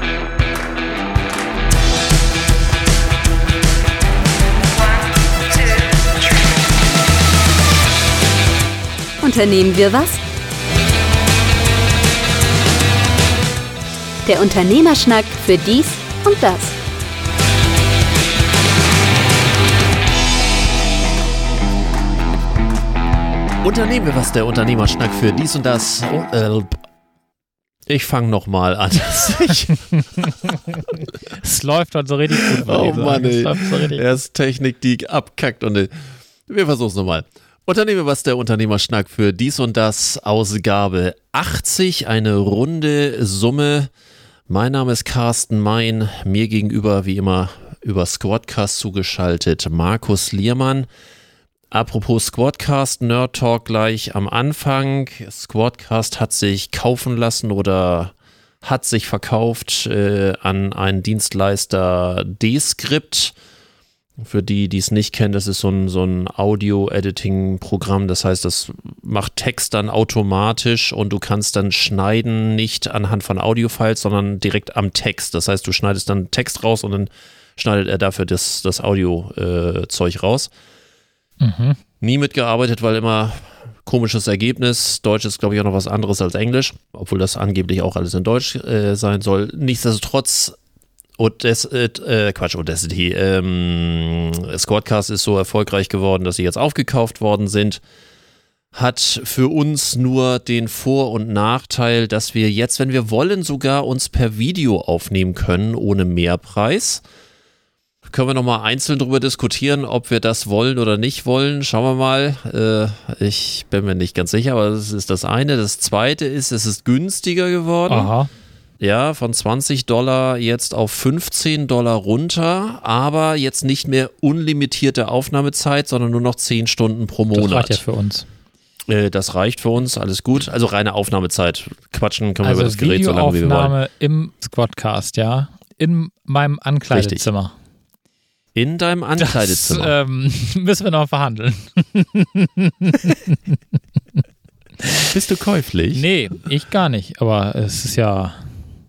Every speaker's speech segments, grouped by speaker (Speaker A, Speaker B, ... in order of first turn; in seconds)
Speaker A: 9.2-10.2, 14.2-16.8
Speaker B: 23.6-26.8, 27.9-30.5, 32.4-35.9, 36.5-43.9, 44.5-50.9, 51.7-63.4, 64.2-80.5, 82.0-90.6, 91.2-97.8, 98.7-107.0, 108.1-118.1, 118.8-127.8, 128.9-133.8, 136.9-137.3, 138.6-139.9, 145.1-146.0
Speaker C: 30.0-34.0, 81.4-81.8, 117.9-118.3, 127.3-128.3, 132.4-137.5, 139.2-143.6, 144.8-145.1, 145.9-148.5